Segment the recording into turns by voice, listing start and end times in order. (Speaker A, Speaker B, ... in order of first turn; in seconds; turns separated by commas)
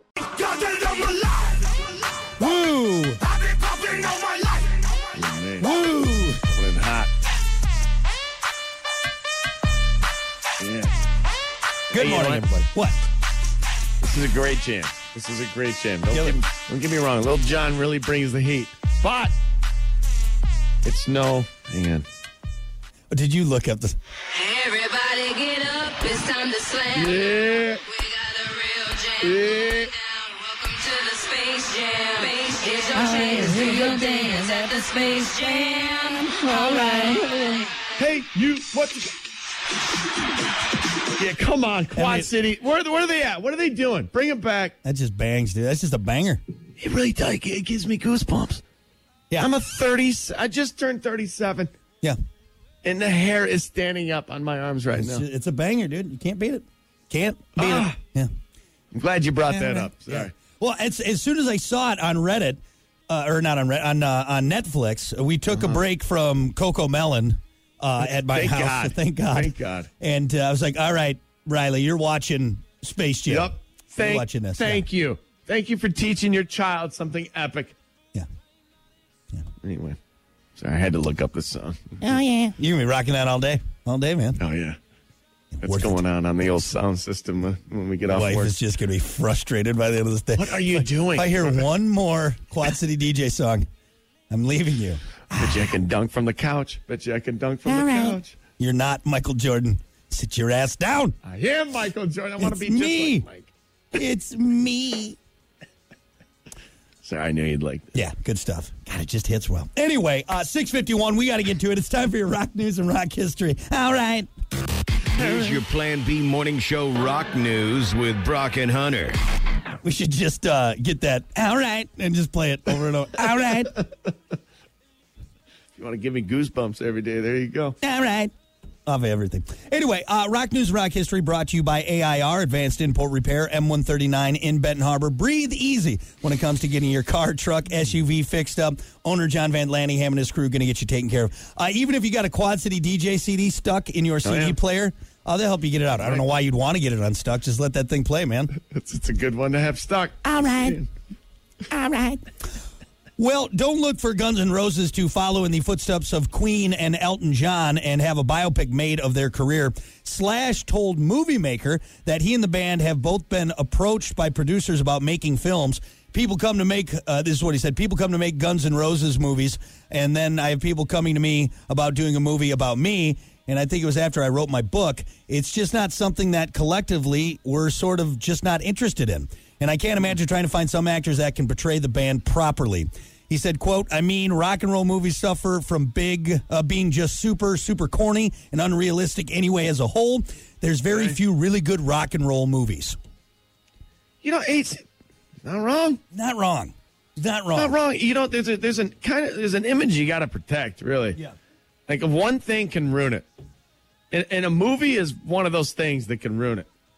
Speaker A: 0.5-1.3, Speaker A: 2.4-3.2, Speaker B: 5.1-5.7, Speaker A: 5.6-6.4, Speaker B: 6.5-7.1, Speaker B: 10.6-10.9, Speaker A: 11.9-13.0, Speaker B: 11.9-12.7, Speaker B: 14.0-19.3, Speaker A: 16.1-16.4, Speaker B: 20.8-22.1, Speaker A: 23.1-23.9, Speaker C: 24.3-27.3, Speaker B: 26.9-27.8, Speaker C: 27.9-37.9, Speaker B: 29.2-29.9, Speaker B: 38.0-39.1, Speaker B: 41.2-44.7, Speaker A: 41.9-42.3, Speaker A: 44.8-46.4, Speaker B: 46.8-48.6, Speaker B: 49.4-51.7, Speaker B: 52.8-55.2, Speaker A: 54.9-58.3, Speaker B: 57.5-58.0, Speaker B: 58.9-60.3, Speaker A: 59.5-74.8, Speaker B: 65.5-65.8, Speaker B: 68.0-69.9, Speaker B: 73.3-77.8, Speaker B: 79.6-80.0, Speaker B: 80.6-82.0, Speaker A: 82.0-84.4, Speaker B: 84.4-84.8, Speaker A: 85.5-86.0, Speaker B: 85.6-88.5, Speaker A: 88.1-93.7, Speaker B: 90.4-91.7, Speaker A: 94.3-95.6, Speaker B: 95.3-98.3, Speaker A: 97.7-101.2, Speaker B: 101.2-103.5, Speaker A: 102.4-103.2, Speaker A: 103.9-105.2, Speaker B: 107.0-107.9, Speaker A: 107.9-114.3, Speaker D: 115.1-119.2, Speaker A: 119.8-123.7, Speaker B: 125.8-127.8, Speaker A: 127.8-128.3, Speaker A: 128.8-148.5, Speaker B: 144.2-144.6, Speaker B: 148.7-150.9, Speaker A: 150.2-150.7, Speaker A: 151.7-152.2, Speaker A: 153.2-193.0, Speaker B: 190.9-191.2, Speaker B: 194.2-194.8, Speaker B: 195.4-196.0, Speaker A: 196.1-197.8, Speaker B: 197.5-201.2, Speaker B: 201.9-203.2, Speaker B: 204.1-206.7